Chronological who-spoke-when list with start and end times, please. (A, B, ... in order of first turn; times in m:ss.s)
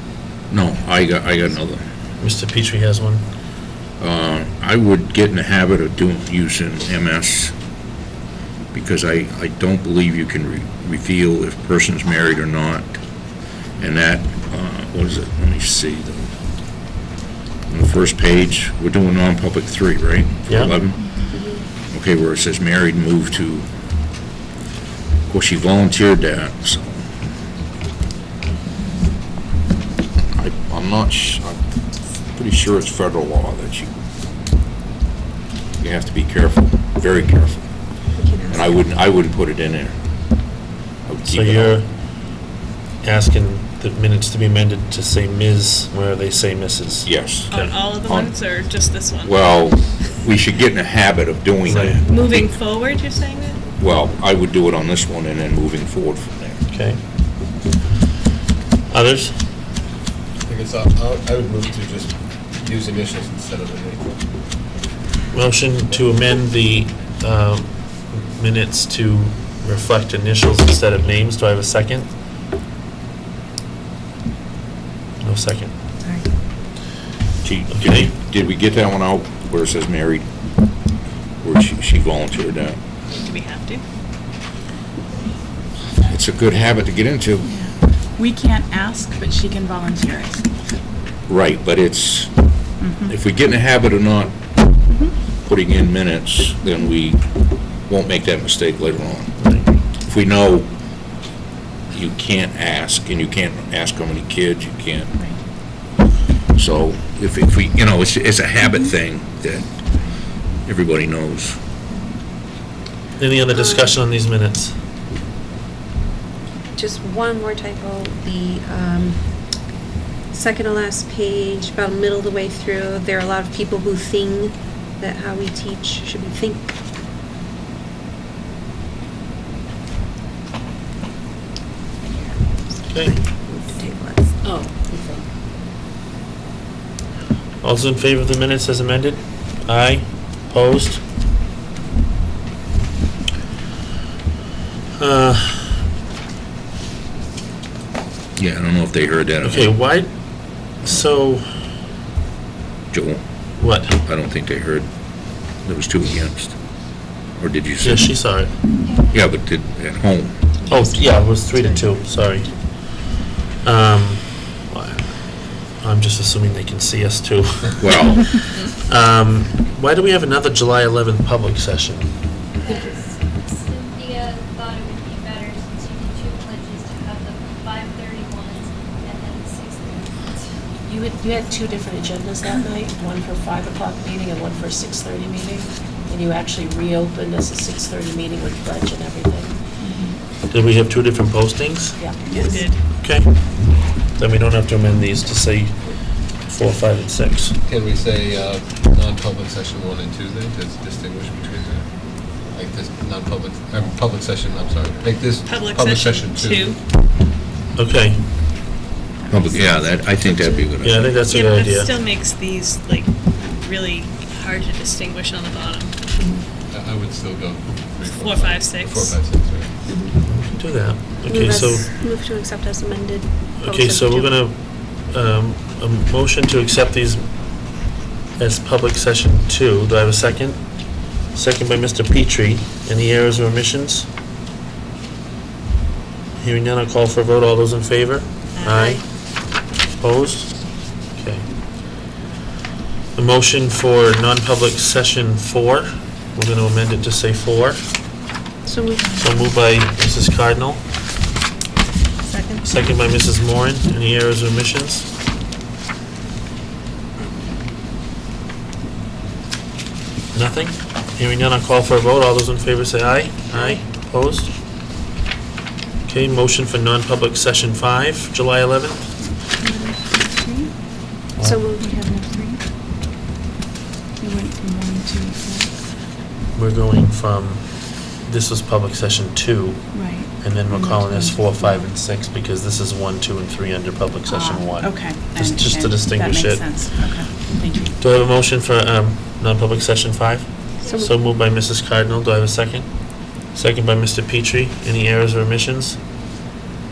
0:00.5-0:01.8 A
0:02.2-0:03.2 B
0:04.0-0:07.6 A
0:08.7-0:12.9 A
0:13.8-0:16.3 A
0:17.7-0:21.3 A
0:20.5-0:20.8 B
0:21.3-0:21.7 C
0:21.9-0:23.7 A
0:25.3-0:27.0 A
0:30.4-0:31.6 A
0:32.3-0:33.9 A
0:35.8-0:40.0 A
0:38.2-0:38.8 C
0:41.1-0:41.8 A
0:41.3-0:42.2 B
0:43.0-0:47.8 B
0:47.0-0:52.5 A
0:47.5-0:49.3 D
0:47.9-0:48.9 E
0:51.6-0:52.0 B
0:52.1-0:53.5 E
0:52.4-0:53.6 D
0:53.8-0:56.6 A
0:56.7-0:57.0 B
0:58.9-0:59.4 B
1:00.5-1:04.2 F
1:05.3-1:12.1 B
1:15.2-1:15.7 B
1:16.0-1:16.3 C
1:17.4-1:20.3 A
1:17.7-1:18.1 B
1:21.4-1:22.8 A
1:23.2-1:23.8 D
1:23.4-1:23.8 E
1:26.0-1:27.6 A
1:27.5-1:30.5 G
1:31.3-1:34.7 A
1:32.8-1:33.1 G
1:35.4-1:39.5 A
1:39.4-1:39.7 B
1:40.1-1:40.7 A
1:41.9-1:45.1 A
1:46.5-1:49.7 A
1:50.6-1:51.6 A
1:53.2-1:54.8 B
1:53.5-1:54.0 C
1:56.8-1:59.4 C
2:00.3-2:06.7 C
2:12.1-2:14.4 C
2:12.9-2:13.2 B
2:14.4-2:15.2 H
2:17.6-2:21.0 B
2:25.0-2:25.8 B
2:28.4-2:29.7 A
2:29.4-2:31.4 B
2:32.9-2:33.2 A
2:33.6-2:34.0 B
2:34.0-2:36.6 A
2:37.4-2:38.1 A
2:37.8-2:38.6 B
2:38.8-2:39.2 E
2:39.1-2:40.3 A
2:40.6-2:41.9 C
2:40.7-2:52.1 B
2:47.8-2:48.3 A
2:52.6-3:00.5 E
3:00.9-3:09.6 H
3:09.8-3:10.2 G
3:10.5-3:17.6 B
3:12.0-3:12.6 H
3:12.3-3:12.6 G
3:12.4-3:12.8 E
3:17.7-3:26.8 F
3:25.5-3:25.9 D
3:25.5-3:26.8 E
3:27.8-3:28.3 B
3:29.3-3:31.4 A
3:30.8-3:31.9 B
3:31.3-3:32.9 D
3:31.3-3:35.9 E
3:34.6-3:35.8 D
3:36.2-3:36.5 C
3:36.7-3:39.7 F
3:38.2-3:39.2 E
3:38.2-3:39.1 D
3:39.9-3:40.2 C
3:40.2-3:41.9 B
3:41.3-3:44.3 C
3:43.6-3:54.1 B
3:56.4-4:01.5 B
3:58.6-3:59.0 C
4:03.2-4:07.8 B
4:08.6-4:09.2 C
4:09.1-4:10.8 B
4:12.3-4:12.6 E
4:12.6-4:15.1 B
4:20.3-4:24.5 B
4:23.5-4:23.8 C
4:26.1-4:29.3 B
4:29.4-4:30.7 G
4:31.4-4:31.6 B
4:31.4-4:32.1 C
4:31.8-4:32.6 G
4:34.2-4:35.7 G
4:36.5-4:47.0 B
4:39.9-4:41.9 G
4:44.3-4:48.0 G
4:48.0-4:56.0 B
4:50.8-4:51.1 C